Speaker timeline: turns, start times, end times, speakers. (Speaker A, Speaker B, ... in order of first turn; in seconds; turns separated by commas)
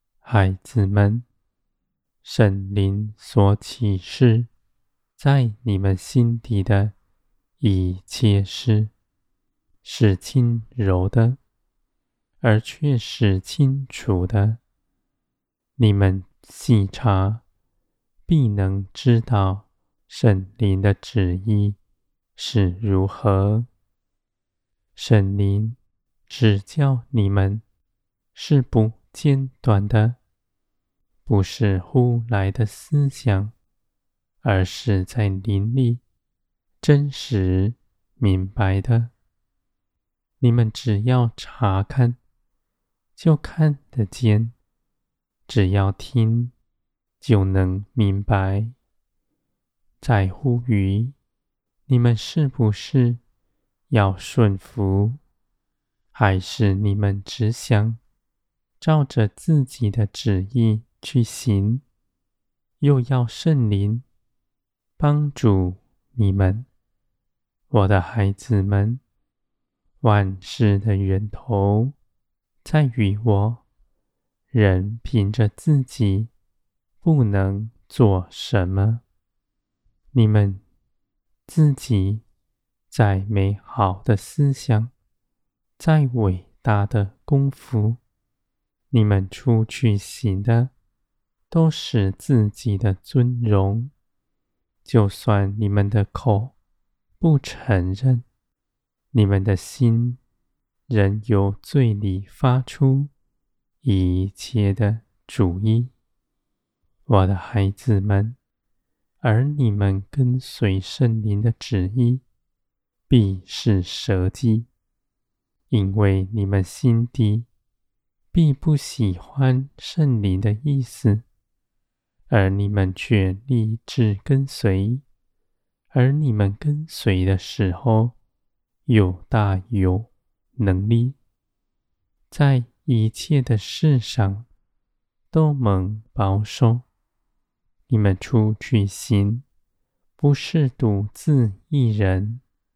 Speaker A: 0.2-1.3, Speaker A: 2.2-4.5, Speaker A: 5.2-7.0, Speaker A: 7.6-8.9, Speaker A: 9.8-11.4, Speaker A: 12.4-14.6, Speaker A: 15.8-17.4, Speaker A: 18.3-21.8, Speaker A: 22.4-23.7, Speaker A: 24.9-27.6, Speaker A: 28.3-30.2, Speaker A: 31.3-33.5, Speaker A: 34.4-36.0, Speaker A: 36.8-39.1, Speaker A: 40.4-42.2, Speaker A: 43.2-44.5, Speaker A: 45.5-46.5, Speaker A: 47.2-48.8, Speaker A: 50.0-51.2, Speaker A: 51.9-53.2, Speaker A: 53.9-55.2, Speaker A: 56.1-58.0, Speaker A: 58.8-61.8, Speaker A: 62.8-64.0, Speaker A: 65.0-66.7, Speaker A: 67.7-69.0, Speaker A: 70.0-72.0, Speaker A: 72.6-73.6, Speaker A: 74.5-76.3, Speaker A: 77.0-79.0, Speaker A: 80.1-80.6, Speaker A: 81.5-82.2, Speaker A: 82.9-84.9, Speaker A: 85.8-88.0, Speaker A: 88.9-90.7, Speaker A: 91.5-93.9, Speaker A: 94.8-96.6, Speaker A: 97.2-98.2, Speaker A: 99.1-100.2, Speaker A: 100.9-103.1, Speaker A: 103.8-105.9, Speaker A: 107.1-108.4, Speaker A: 109.2-112.2, Speaker A: 113.1-114.7, Speaker A: 115.7-117.5, Speaker A: 118.3-121.2, Speaker A: 122.3-125.0, Speaker A: 125.9-128.2, Speaker A: 128.9-131.2, Speaker A: 132.3-134.5, Speaker A: 135.3-136.9, Speaker A: 137.9-139.4, Speaker A: 140.2-142.4